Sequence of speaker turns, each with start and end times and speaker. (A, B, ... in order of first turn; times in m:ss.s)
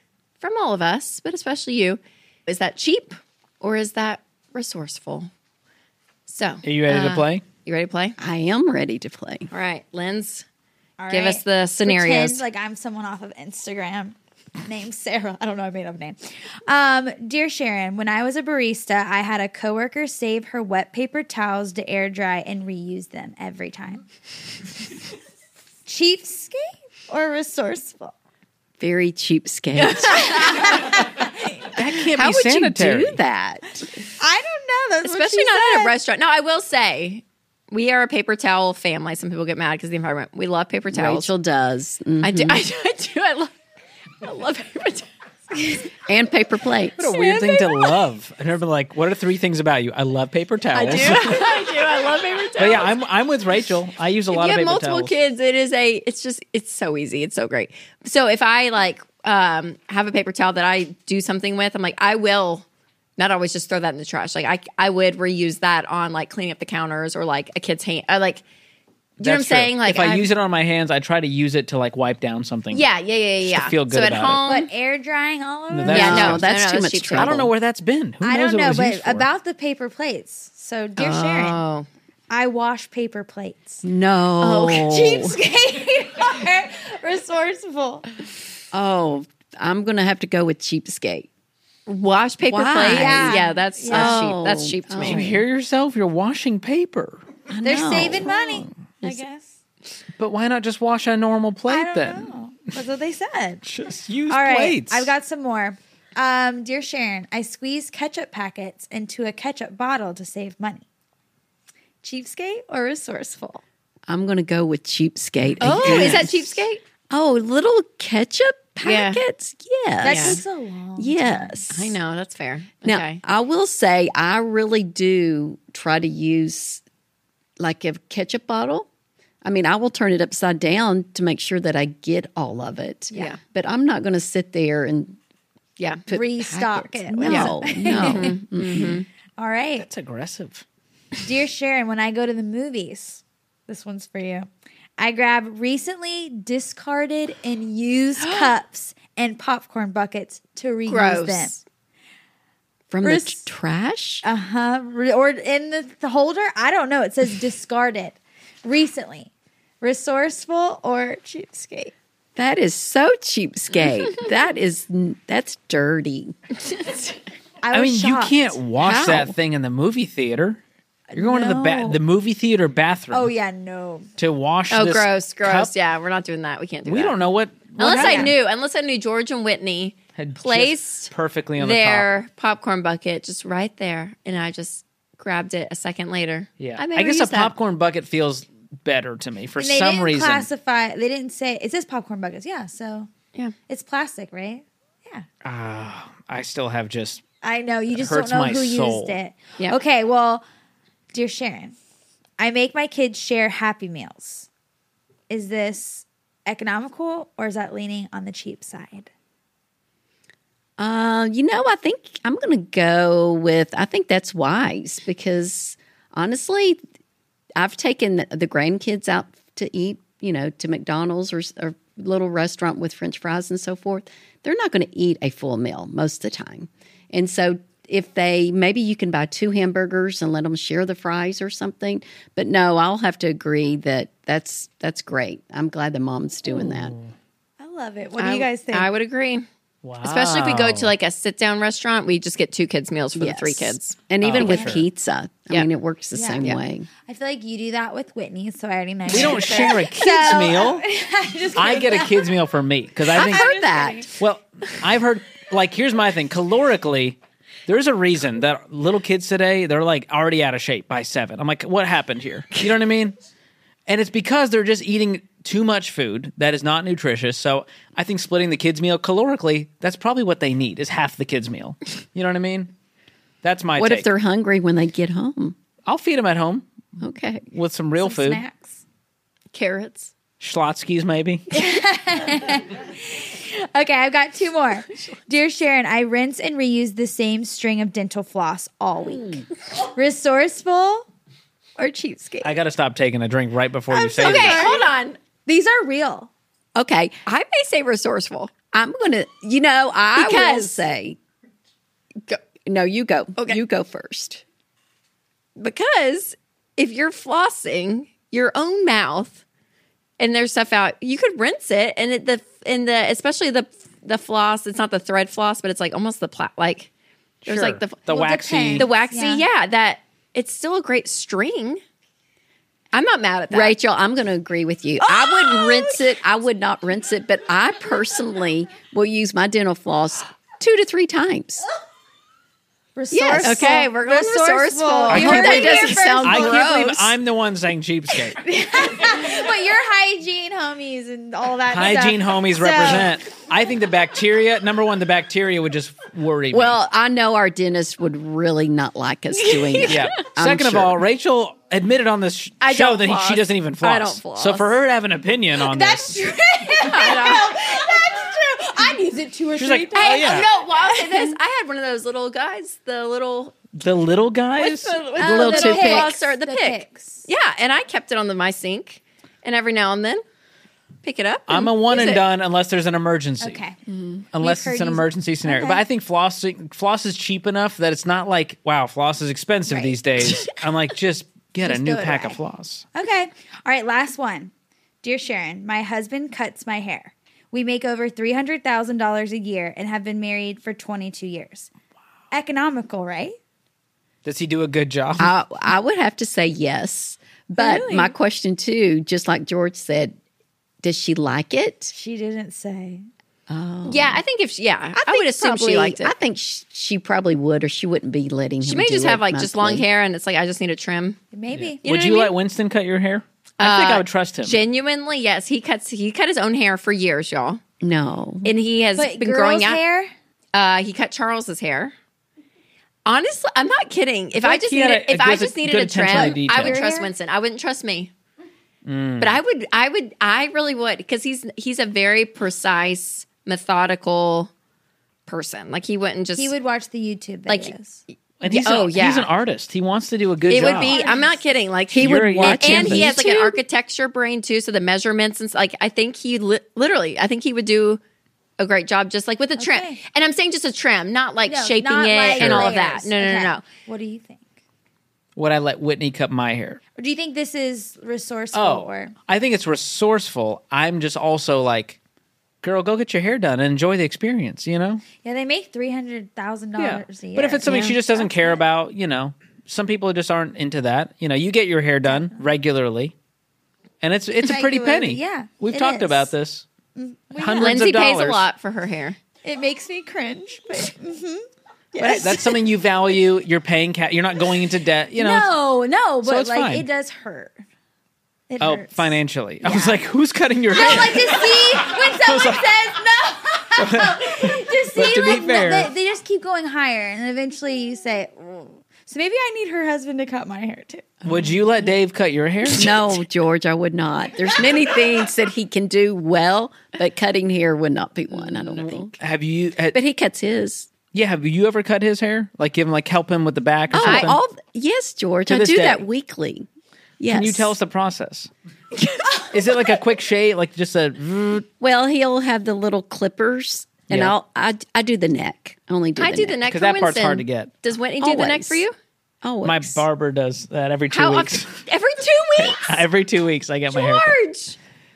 0:00.4-0:05.3 A
0:06.3-0:08.2 A
0:06.6-0:07.4 B
0:08.2-0:09.5 C
0:09.5-0:10.4 A
0:11.0-0:24.0 D
0:11.1-0:12.4 A
0:25.9-0:28.1 D
0:28.8-0:30.8 C
0:29.8-0:30.8 A
0:30.2-0:31.5 D
0:31.7-0:33.2 B
0:32.0-0:33.9 C
0:34.2-0:35.9 D
0:35.0-0:41.3 A
0:40.9-0:42.6 C
0:42.2-0:43.5 A
0:44.2-0:45.1 A
0:46.1-0:47.1 C
0:47.0-0:51.4 B
0:50.7-0:52.9 A
0:52.6-0:55.1 B
0:54.3-1:02.6 A
1:03.2-1:08.4 A
1:09.2-1:10.3 A
1:09.2-1:12.8 B
1:12.7-1:14.7 A
1:13.4-1:14.4 B
1:14.5-1:16.2 D
1:15.7-1:16.5 B
1:15.8-1:17.5 C
1:15.9-1:17.4 A
1:17.1-1:19.3 B
1:18.2-1:21.6 D
1:21.0-1:21.9 A
1:22.3-1:23.8 D
1:23.8-1:25.4 C
1:24.4-1:28.1 D
1:28.7-1:31.3 C
1:31.9-1:35.3 A
1:32.5-1:35.4 C
1:32.9-1:34.2 D
1:35.0-1:37.3 B
1:37.5-1:38.4 C
1:37.6-1:39.6 D
1:37.8-1:38.6 B
1:40.2-1:42.3 B
1:41.7-1:43.6 D
1:43.6-1:45.1 B
1:44.3-1:50.8 D
1:52.0-1:53.6 D
1:54.1-2:00.4 C
1:55.6-1:56.8 A
1:55.8-1:56.2 D
1:58.8-1:59.2 A
2:00.0-2:01.6 D
2:00.0-2:00.4 A
2:01.0-2:02.0 C
2:01.7-2:03.2 A
2:02.8-2:06.8 C
2:07.6-2:08.9 C
2:09.4-2:15.2 C
2:13.1-2:13.4 A
2:15.8-2:19.0 A
2:16.1-2:19.0 C
2:16.1-2:19.9 D
2:19.8-2:20.6 B
2:21.2-2:31.6 D
2:28.2-2:28.5 A
2:30.9-2:31.6 A
2:32.9-2:34.2 C
2:33.0-2:33.4 D
2:34.2-2:39.3 D
2:39.8-2:41.9 D
2:42.4-2:46.4 C
2:47.6-2:48.6 D
2:47.7-2:50.6 B
2:48.8-2:49.3 C
2:51.1-2:52.0 D
2:51.1-2:53.3 B
2:53.1-2:54.1 D
2:54.2-2:55.7 B
2:54.7-2:57.2 A
2:56.9-2:58.3 B
2:57.8-3:07.5 A
2:57.9-2:58.3 D
3:00.2-3:02.1 B
3:06.6-3:10.5 B
3:09.6-3:13.1 D
3:13.7-3:15.3 D
3:15.4-3:17.2 B
3:17.4-3:20.4 D
3:17.9-3:19.2 B
3:21.1-3:21.8 D
3:22.4-3:24.5 D
3:25.3-3:29.1 D
3:30.8-3:36.8 C
3:37.6-3:57.0 C
3:56.6-3:57.1 B
3:57.6-3:58.9 D
3:58.2-3:59.4 A
3:59.8-4:00.9 B
4:00.0-4:04.0 A
4:03.2-4:06.9 C
4:04.2-4:04.9 B
4:04.3-4:04.8 D
4:06.2-4:06.5 D
4:07.1-4:12.4 D
4:09.1-4:09.9 A
4:09.1-4:10.8 B
4:11.6-4:13.5 B
4:13.1-4:14.1 D
4:13.1-4:14.1 C
4:14.2-4:23.2 B
4:23.9-4:32.7 B
4:33.4-4:34.1 B
4:33.8-4:35.6 C
4:35.9-4:36.7 B
4:37.0-4:37.5 C
4:37.5-4:38.4 B
4:38.0-4:38.8 D
4:39.5-4:40.1 A
4:40.4-4:41.5 B
4:41.5-4:51.0 D
4:51.8-4:52.5 A
4:52.4-4:54.7 B
4:53.9-4:54.9 D
4:54.2-4:55.2 A
4:55.4-4:56.3 D
4:56.8-4:57.2 C
4:57.3-4:58.5 A
4:58.7-5:01.2 C
5:00.2-5:00.8 A
5:02.6-5:04.4 C
5:05.6-5:09.4 A
5:10.2-5:16.9 A
5:17.4-5:18.0 A
5:17.4-5:18.9 B
5:18.1-5:19.4 D
5:18.8-5:21.8 A
5:22.9-5:23.8 A
5:23.5-5:31.6 C
5:25.4-5:25.9 D
5:33.0-5:36.6 D
5:33.2-5:36.1 A
5:33.2-5:33.8 C
5:35.1-5:37.2 C
5:35.1-5:35.6 B
5:36.2-5:38.4 B
5:38.4-5:43.2 D
5:41.7-5:46.8 B
5:46.5-5:51.0 C
5:49.3-5:50.1 A
5:49.9-5:56.2 B
5:52.6-5:54.7 A
5:55.6-6:01.4 D
5:56.9-5:57.8 A
5:59.6-6:00.5 B
5:59.9-6:03.8 A
6:03.8-6:05.0 B
6:04.6-6:10.2 A
6:05.2-6:07.3 D
6:05.2-6:06.2 C
6:11.0-6:12.2 A
6:11.5-6:13.6 B
6:13.4-6:13.8 D
6:14.3-6:22.8 B
6:14.4-6:15.8 D
6:19.7-6:20.0 D
6:21.6-6:22.4 D
6:23.0-6:31.7 D
6:32.3-6:33.4 D
6:34.2-6:35.3 B
6:35.2-6:40.2 C
6:37.6-6:38.1 A
6:40.8-6:41.9 C
6:41.9-6:43.1 D
6:43.5-6:44.2 C
6:43.8-6:46.1 A
6:45.0-6:49.8 C
6:48.6-6:51.2 A
6:51.3-6:51.8 D
6:51.5-6:54.6 B
6:51.8-6:52.3 A
6:53.6-6:57.6 A
6:57.8-6:58.5 C
6:58.4-6:59.8 A
6:59.0-7:00.1 D
7:00.5-7:01.9 A
7:03.1-7:08.1 A
7:04.4-7:06.8 B
7:06.1-7:07.1 D
7:08.9-7:09.4 B
7:09.2-7:14.5 A
7:15.3-7:16.5 A
7:16.4-7:18.0 D
7:17.5-7:17.7 A
7:18.4-7:21.0 B
7:18.5-7:19.3 A
7:20.5-7:28.0 A
7:20.6-7:21.4 D
7:21.9-7:23.6 C
7:22.0-7:23.1 B
7:28.6-7:33.6 A
7:29.6-7:30.0 D
7:31.5-7:34.4 D
7:32.4-7:32.7 B
7:35.4-7:36.8 B
7:37.0-7:39.1 D
7:38.5-7:42.0 B
7:42.6-7:45.0 B
7:45.2-7:48.6 D
7:46.8-7:53.1 B
7:52.1-7:52.4 D
7:54.0-7:56.6 B
7:54.4-7:56.3 D
7:57.0-7:57.9 D
7:57.4-7:58.4 B
7:57.6-7:59.2 A
7:59.4-8:02.6 D
8:02.0-8:05.5 B
8:05.2-8:07.6 D
8:06.2-8:06.9 B
8:08.5-8:10.0 D
8:08.6-8:12.7 B
8:10.7-8:21.2 D
8:13.8-8:15.9 B
8:21.2-8:23.2 B
8:22.7-8:29.2 C
8:28.3-8:30.0 B
8:29.9-8:30.9 C
8:31.1-8:34.4 B
8:33.9-8:36.7 C
8:34.0-8:34.4 A
8:35.5-8:36.1 B
8:37.2-8:37.7 C
8:37.3-8:38.5 B
8:39.5-8:41.7 B
8:41.8-8:46.6 C
8:46.2-8:49.0 A
8:46.7-8:47.7 B
8:48.2-8:48.8 C
8:49.4-8:50.0 C
8:49.6-8:51.8 B
8:51.1-8:53.0 A
8:52.6-8:54.4 B
8:53.9-8:54.8 A